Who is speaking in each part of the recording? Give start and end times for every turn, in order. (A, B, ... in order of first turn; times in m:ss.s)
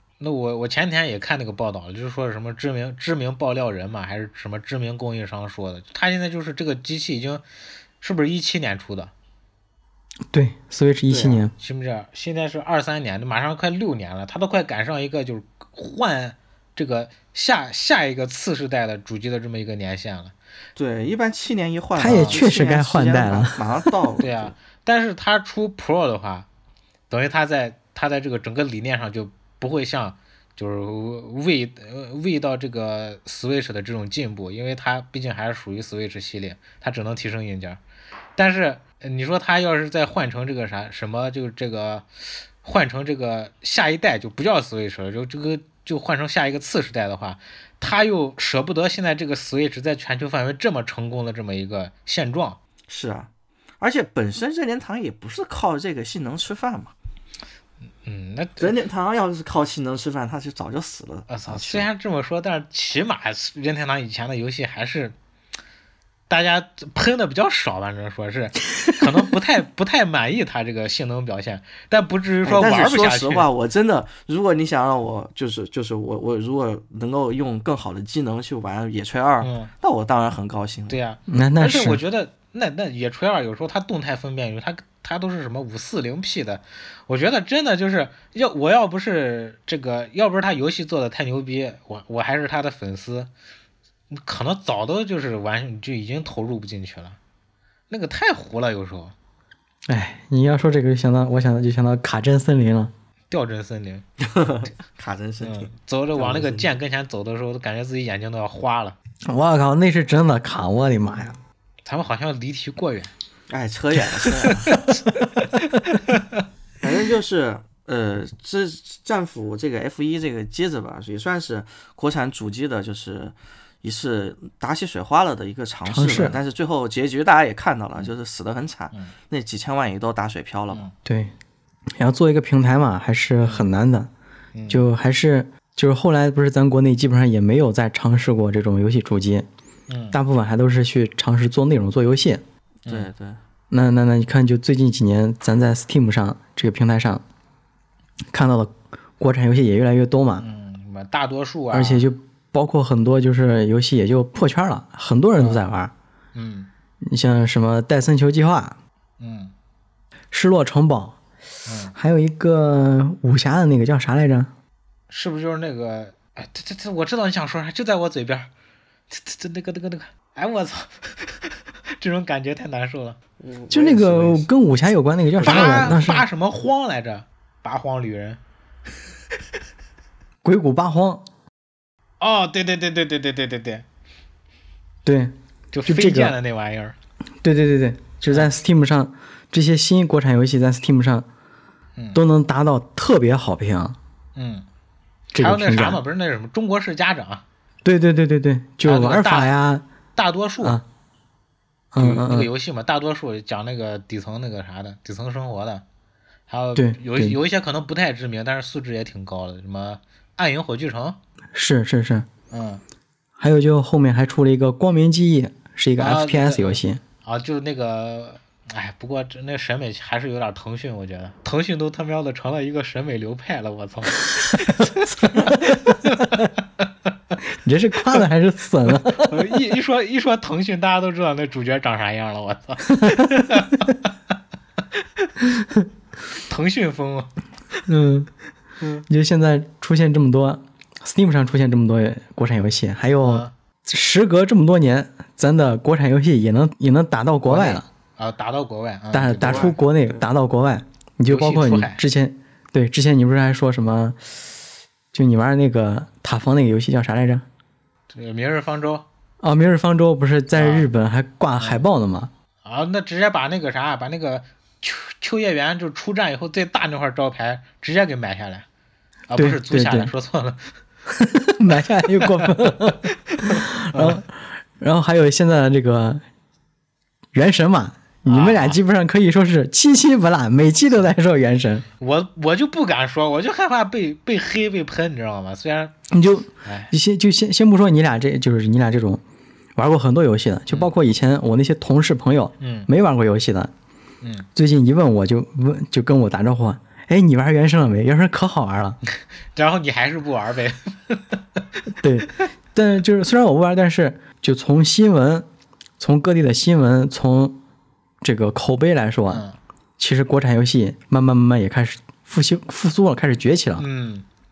0:00.2-0:07.4 A
0:08.0-0:09.1 A
0:10.3-0:11.5 B
0:11.1-0:11.5 C
0:11.6-0:20.3 A
0:20.8-0:24.5 C
0:22.0-0:23.9 B
0:22.1-0:22.4 A
0:24.2-0:26.5 A
0:27.1-0:37.8 A
0:38.4-0:42.1 A
0:42.6-0:52.6 A
0:52.9-0:53.3 C
0:53.8-0:56.9 C
0:58.0-0:58.7 A
0:58.6-1:01.9 C
1:01.3-1:05.2 A
1:06.3-1:13.5 A
1:12.4-1:21.0 C
1:19.4-1:19.7 A
1:20.9-1:33.3 A
1:21.3-1:22.0 B
1:34.1-1:37.2 A
1:37.9-1:39.2 A
1:39.9-1:42.9 B
1:43.3-1:44.0 A
1:44.2-1:46.8 C
1:45.4-1:49.0 A
1:49.3-1:51.4 B
1:51.9-1:53.1 A
1:53.5-1:54.8 C
1:54.5-1:56.4 A
1:56.8-2:10.8 C
2:05.9-2:06.4 B
2:11.0-2:11.3 B
2:12.0-2:14.1 B
2:13.4-2:13.7 A
2:14.5-2:14.9 A
2:14.7-2:19.5 B
2:19.9-2:20.2 A
2:20.1-2:22.4 B
2:22.9-2:23.4 C
2:23.7-2:27.2 B
2:28.3-2:30.5 B
2:30.4-2:32.1 A
2:31.7-2:35.9 B
2:35.4-2:35.6 A
2:36.4-2:36.7 A
2:37.0-2:38.8 B
2:39.2-2:39.5 A
2:40.3-2:41.2 B
2:41.6-2:41.9 A
2:41.9-2:44.5 B
2:45.1-2:48.5 A
2:49.1-2:53.2 A
2:53.4-2:54.5 C
2:53.7-2:56.3 B
2:55.4-2:56.0 C
2:55.5-2:58.4 A
3:00.4-3:01.2 B
3:02.2-3:03.8 A
3:05.0-3:06.3 B
3:05.7-3:07.0 A
3:07.4-3:11.3 B
3:12.2-3:14.0 B
3:14.4-3:14.7 A
3:15.3-3:16.0 B
3:15.4-3:17.4 A
3:17.8-3:19.8 B
3:18.8-3:19.5 A
3:20.2-3:20.8 A
3:21.9-3:22.5 B
3:22.0-3:25.8 A
3:26.5-3:31.2 A
3:26.8-3:27.4 B
3:31.5-3:32.3 B
3:32.5-3:32.8 A
3:33.4-3:37.0 B
3:36.0-3:47.4 A
3:45.1-3:46.3 B
3:47.6-3:49.5 B
3:49.2-3:54.1 A
3:53.0-3:53.6 B
3:55.0-3:55.3 A
3:56.4-3:57.3 A
3:57.9-3:58.3 B
3:59.1-4:07.9 B
4:03.2-4:03.5 A
4:07.4-4:09.7 A
4:09.1-4:14.4 B
4:09.3-4:10.3 C
4:11.3-4:12.0 A
4:15.1-4:17.4 B
4:18.1-4:19.1 A
4:19.4-4:22.3 B
4:20.6-4:20.9 A
4:22.6-4:28.7 A
4:29.3-4:30.6 A
4:29.4-4:30.1 B
4:31.2-4:36.2 B
4:32.1-4:34.2 A
4:37.3-4:41.9 B
4:38.3-4:38.8 A
4:42.0-4:46.0 A
4:46.1-4:49.2 B
4:46.6-4:46.9 A
4:49.8-4:53.7 B
4:52.6-4:52.9 A
4:54.2-4:54.5 A
4:54.6-4:59.0 B
4:59.5-5:01.6 A
5:02.0-5:05.5 B
5:06.0-5:07.6 B
5:08.2-5:09.4 B
5:09.3-5:09.6 A
5:10.0-5:13.8 B
5:13.8-5:14.2 A